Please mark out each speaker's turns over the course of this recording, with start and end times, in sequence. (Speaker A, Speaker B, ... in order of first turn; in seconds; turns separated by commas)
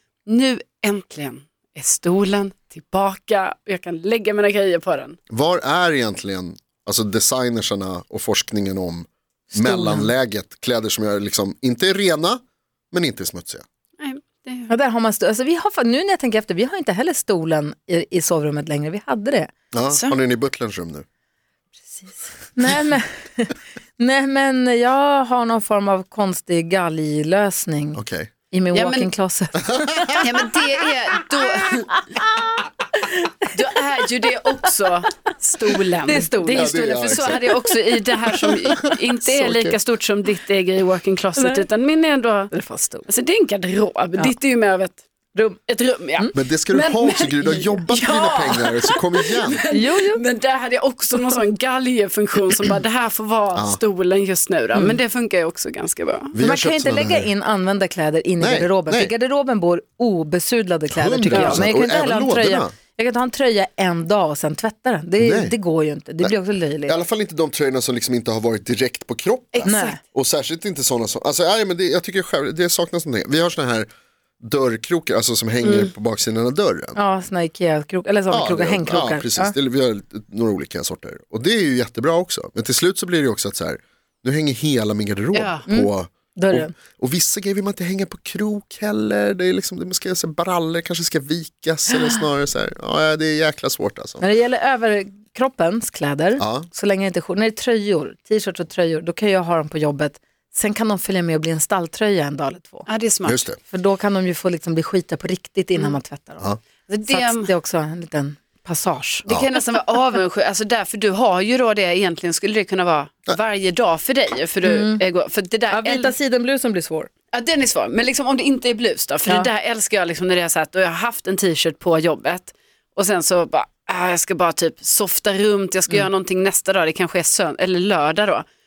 Speaker A: 0.3-5.2, Speaker B: 5.3-12.4, Speaker C: 9.5-10.1, Speaker B: 12.9-13.6, Speaker A: 14.0-14.7, Speaker C: 14.7-19.5, Speaker B: 19.7-21.1, Speaker A: 19.9-20.2, Speaker C: 21.9-30.2, Speaker B: 27.9-28.3, Speaker A: 28.7-29.1, Speaker A: 30.2-32.1, Speaker A: 33.5-42.5, Speaker C: 36.0-37.6, Speaker B: 36.5-37.5, Speaker C: 38.7-39.7, Speaker C: 41.4-41.6, Speaker C: 42.5-43.1, Speaker A: 43.1-45.0, Speaker C: 45.3-45.6, Speaker A: 45.7-56.3, Speaker B: 46.3-49.6, Speaker C: 49.7-50.2, Speaker B: 53.5-53.8, Speaker C: 54.7-55.0, Speaker B: 56.3-57.3, Speaker C: 56.4-66.9, Speaker B: 58.4-59.1, Speaker B: 60.9-62.7, Speaker A: 61.3-61.7, Speaker B: 65.2-65.6, Speaker B: 66.2-73.9, Speaker A: 69.5-70.0, Speaker C: 69.6-70.0, Speaker B: 74.4-77.0, Speaker A: 75.6-75.9, Speaker C: 76.9-79.5, Speaker B: 78.3-94.3, Speaker A: 85.3-85.6, Speaker C: 85.7-86.7, Speaker C: 94.2-102.8, Speaker B: 96.4-96.7, Speaker A: 102.9-103.4, Speaker B: 103.2-103.6, Speaker C: 103.6-106.5, Speaker A: 106.9-107.5, Speaker C: 107.0-109.2, Speaker A: 109.2-116.1, Speaker C: 114.6-115.0, Speaker C: 115.7-117.1, Speaker A: 117.3-128.4